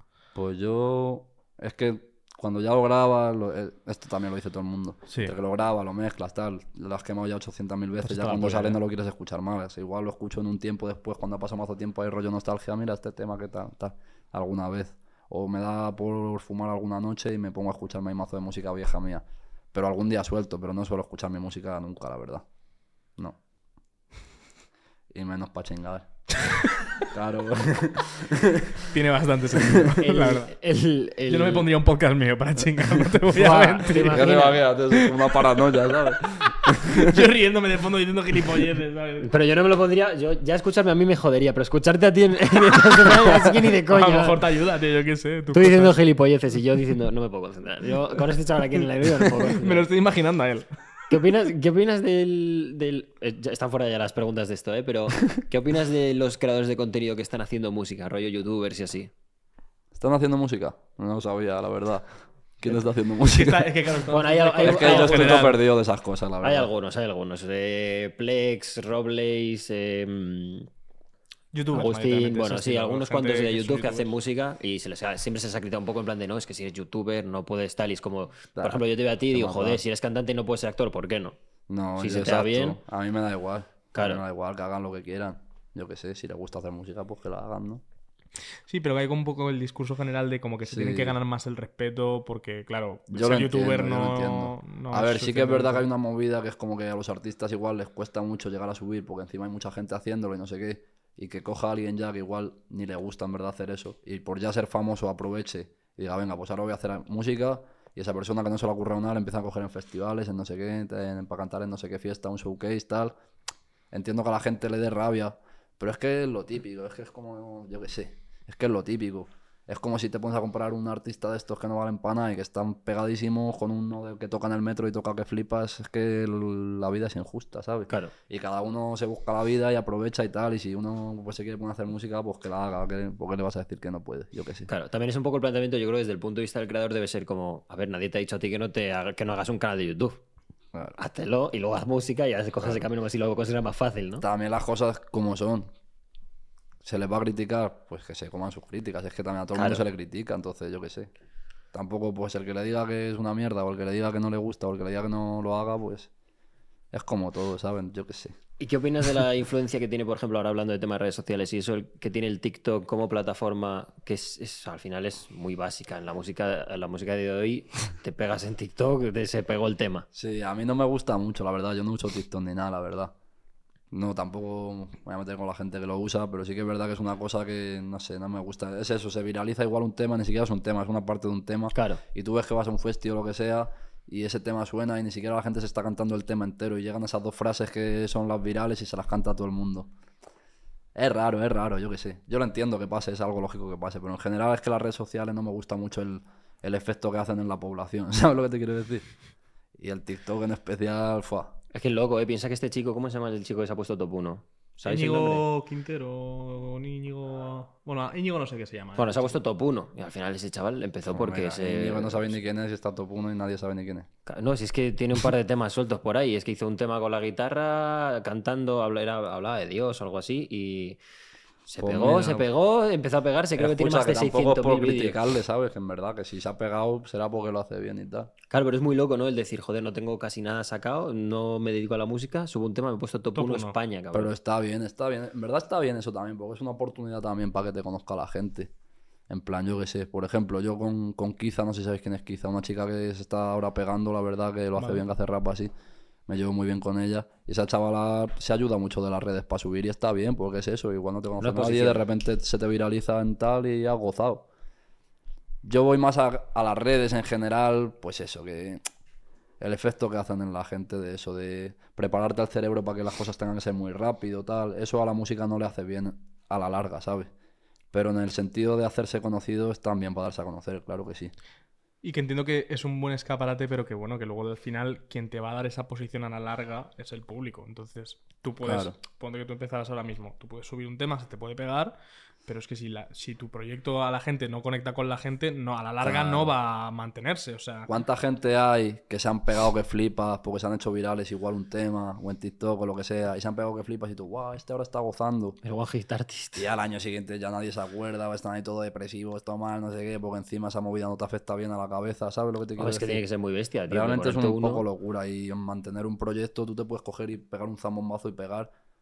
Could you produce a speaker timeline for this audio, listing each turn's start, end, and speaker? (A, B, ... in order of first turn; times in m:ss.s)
0:00.4-0:22.4 A
0:08.0-0:08.8 B
0:25.2-0:26.1 A
0:27.1-0:28.9 A
0:28.9-0:30.5 B
0:29.6-0:29.8 A
0:30.0-0:31.7 C
0:31.3-0:39.3 B
0:33.3-0:34.6 C
0:34.1-0:37.2 A
0:39.2-0:44.5 C
0:43.9-0:46.0 B
0:45.5-0:49.9 C
0:49.0-0:50.7 B
0:51.1-0:59.1 C
0:59.9-1:03.7 A
1:03.2-1:05.6 B
1:04.1-1:05.6 C
1:04.6-1:06.7 A
1:06.4-1:10.7 C
1:11.5-1:14.1 B
1:11.7-1:21.4 C
1:18.6-1:19.8 A
1:21.7-1:27.8 A
1:22.0-1:22.8 C
1:23.9-1:24.2 C
1:28.7-1:35.9 B
1:30.7-1:31.2 A
1:33.1-1:53.1 A
1:53.9-2:14.7 A
2:14.7-2:20.2 C
2:21.0-2:24.2 C
2:24.2-2:25.7 A
2:26.8-2:31.1 A
2:29.6-2:29.8 C
2:31.7-2:36.1 A
2:36.9-2:38.4 A
2:38.6-2:50.1 C
2:50.1-2:53.1 A
2:53.9-3:09.9 A
3:01.7-3:02.0 C
3:11.0-3:19.1 A
3:19.8-3:21.5 A
3:21.7-3:25.4 C
3:24.8-3:29.4 B
3:29.0-3:32.4 C
3:31.1-3:34.1 A
3:34.3-3:41.0 C
3:41.7-3:45.2 C
3:41.8-3:42.5 A
3:43.6-3:48.3 A
3:48.5-3:54.3 C
3:53.4-3:53.8 B
3:54.1-3:58.7 A
3:59.3-4:05.7 A
4:04.8-4:05.0 B
4:06.3-4:14.5 A
4:11.4-4:12.0 C
4:15.6-4:18.8 A
4:19.6-4:27.3 A
4:27.9-4:31.3 A
4:32.0-4:41.9 B
4:38.6-4:39.0 A
4:42.5-4:47.9 B
4:46.0-4:46.5 A
4:47.9-4:55.6 A
4:55.6-4:56.7 C
4:56.6-5:03.2 A
5:02.8-5:04.8 C
5:03.9-5:08.7 A